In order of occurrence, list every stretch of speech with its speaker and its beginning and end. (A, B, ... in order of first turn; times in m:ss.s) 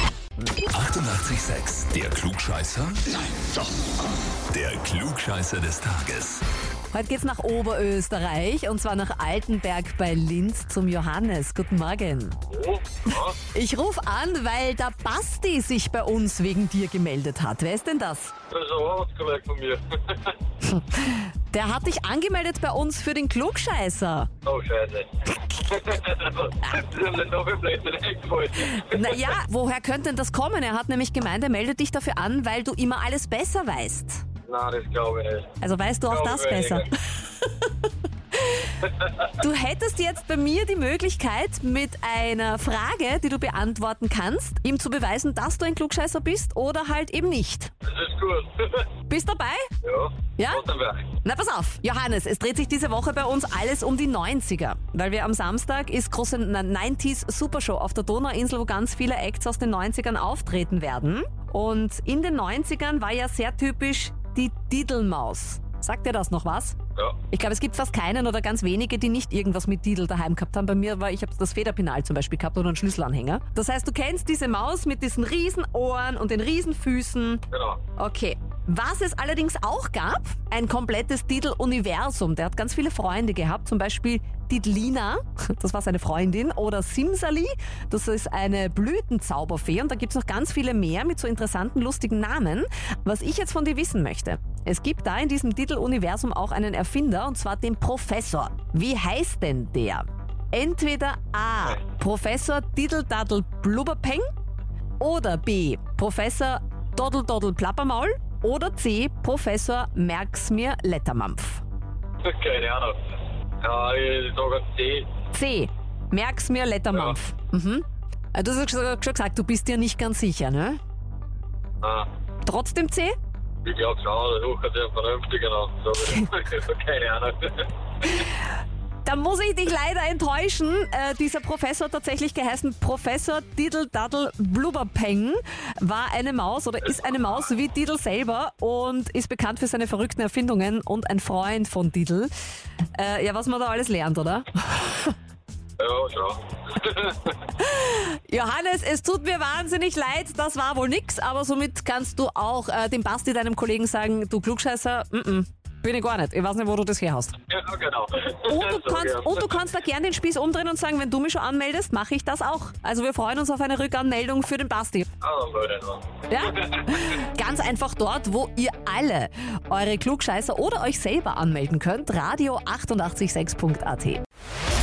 0:00.7-0:03.2 A
0:04.5-0:06.4 A
0:06.9-0:12.4 B
0:12.5-0:13.4 C
0:13.5-0:18.3 B
0:18.5-0:20.4 C
0:20.6-0:24.3 B
0:24.4-0:29.2 C
0:28.8-0:34.2 B
0:34.4-0:35.6 C
0:35.6-0:47.7 B
0:36.1-0:36.9 C
0:47.8-0:48.9 C
0:49.1-0:49.7 B
0:49.8-0:51.1 C
0:50.4-0:50.6 B
0:51.2-1:06.8 B
1:07.3-1:17.4 B
1:17.5-1:17.8 C
1:18.0-1:44.2 B
1:45.0-1:51.6 B
1:52.2-1:55.1 C
1:55.3-2:00.8 B
1:56.9-1:57.2 C
2:01.8-2:02.1 C
2:02.4-2:03.1 B
2:03.6-2:08.2 C
2:09.0-2:22.3 B
2:22.9-2:25.1 B
2:25.8-2:27.4 C
2:27.6-2:37.4 B
2:37.5-2:39.6 C
2:38.5-2:45.1 B
2:45.2-2:47.1 C
2:46.3-2:54.2 B